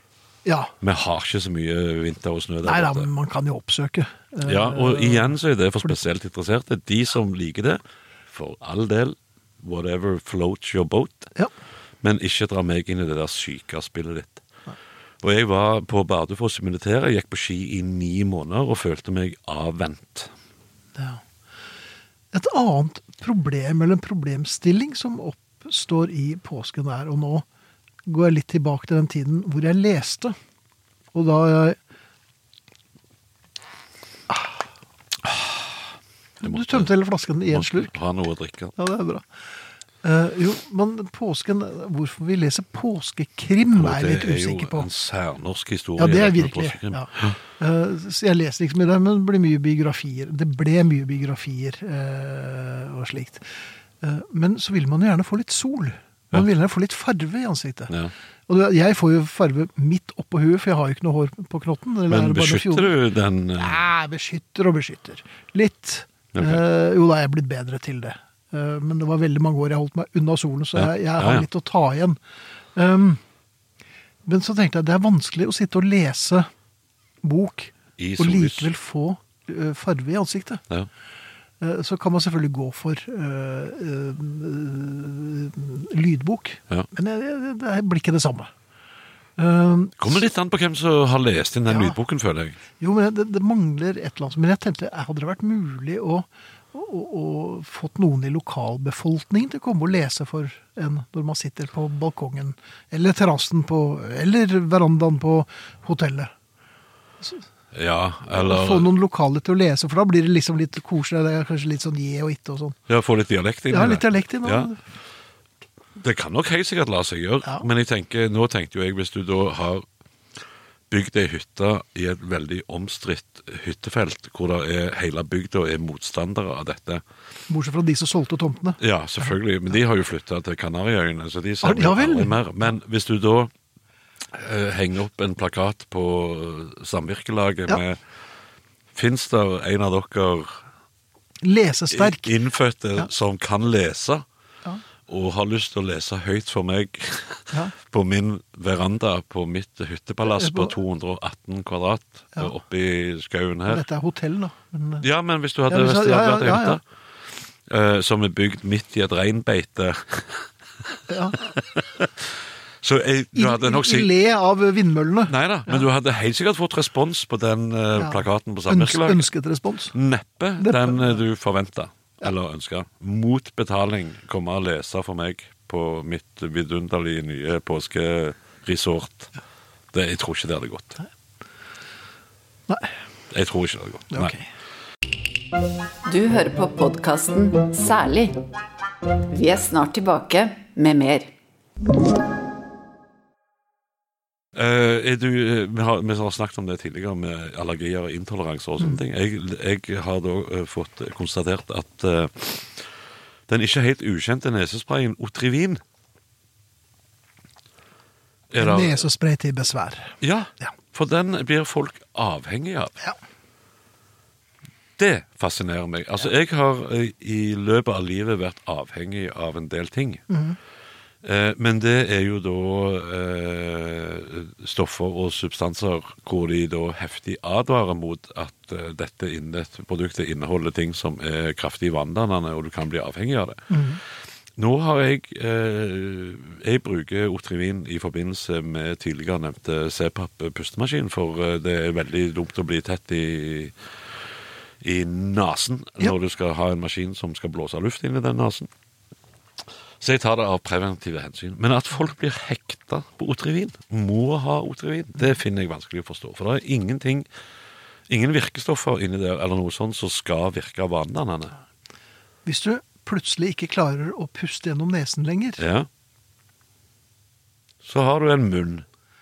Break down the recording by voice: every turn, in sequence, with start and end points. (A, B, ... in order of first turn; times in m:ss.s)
0:00.4-0:00.7 A
0:00.8-0:03.1 B
0:02.6-0:06.0 A
0:04.4-0:11.3 B
0:12.0-0:14.4 B
0:15.2-0:20.3 B
0:21.0-0:21.2 A
0:22.3-0:27.4 A
0:28.0-0:30.3 A
0:31.1-0:31.8 A
0:34.3-0:34.6 A
0:35.2-0:35.8 B
0:36.4-0:37.9 A
0:36.4-0:36.9 B
0:37.5-0:38.8 B
0:38.8-0:39.2 A
0:40.0-0:44.9 A
0:43.7-0:47.4 B
0:46.0-0:58.0 A
0:58.5-1:02.9 A
1:02.1-1:03.8 B
1:03.5-1:12.2 A
1:06.3-1:06.6 B
1:10.7-1:11.5 B
1:12.7-1:13.2 A
1:14.2-1:16.5 A
1:17.2-1:20.6 A
1:18.0-1:18.7 B
1:21.6-1:28.5 A
1:29.4-1:30.2 A
1:30.0-1:32.6 B
1:31.7-1:32.0 A
1:32.8-1:46.3 A
1:47.7-1:48.9 B
1:48.3-1:52.8 A
1:52.9-1:54.7 B
1:53.7-1:54.8 A
1:56.0-1:59.8 B
2:00.9-2:07.0 B
2:07.5-2:08.8 A
2:08.8-2:13.5 B
2:11.6-2:12.4 A
2:14.3-2:18.0 B
2:18.9-2:20.6 B
2:21.4-2:22.3 A
2:21.9-2:24.2 B
2:25.1-2:33.8 B
2:30.2-2:30.7 A
2:33.7-2:35.0 A
2:35.0-2:36.8 B
2:35.7-2:36.8 A
2:37.6-2:44.1 B
2:41.1-2:41.5 A
2:43.3-2:45.8 A
2:45.3-2:49.3 B
2:48.0-2:49.9 A
2:49.9-2:59.3 B
2:50.6-2:51.2 A
2:59.9-3:01.0 B
3:03.3-3:04.3 B
3:04.1-3:04.5 A
3:06.0-3:08.4 C
3:09.3-3:11.3 C
3:14.5-3:22.9 B
3:23.5-3:25.8 B
3:28.5-3:29.0 B
3:28.6-3:30.7 A
3:30.2-3:32.9 B
3:35.0-3:40.2 B
3:40.3-3:40.6 A
3:41.2-3:53.7 B
3:53.7-3:54.0 A
3:54.6-4:03.8 B
4:04.8-4:08.7 B
4:10.0-4:17.3 B
4:18.1-4:21.5 B
4:22.4-4:25.6 A
4:25.6-4:25.9 B
4:27.8-4:28.8 B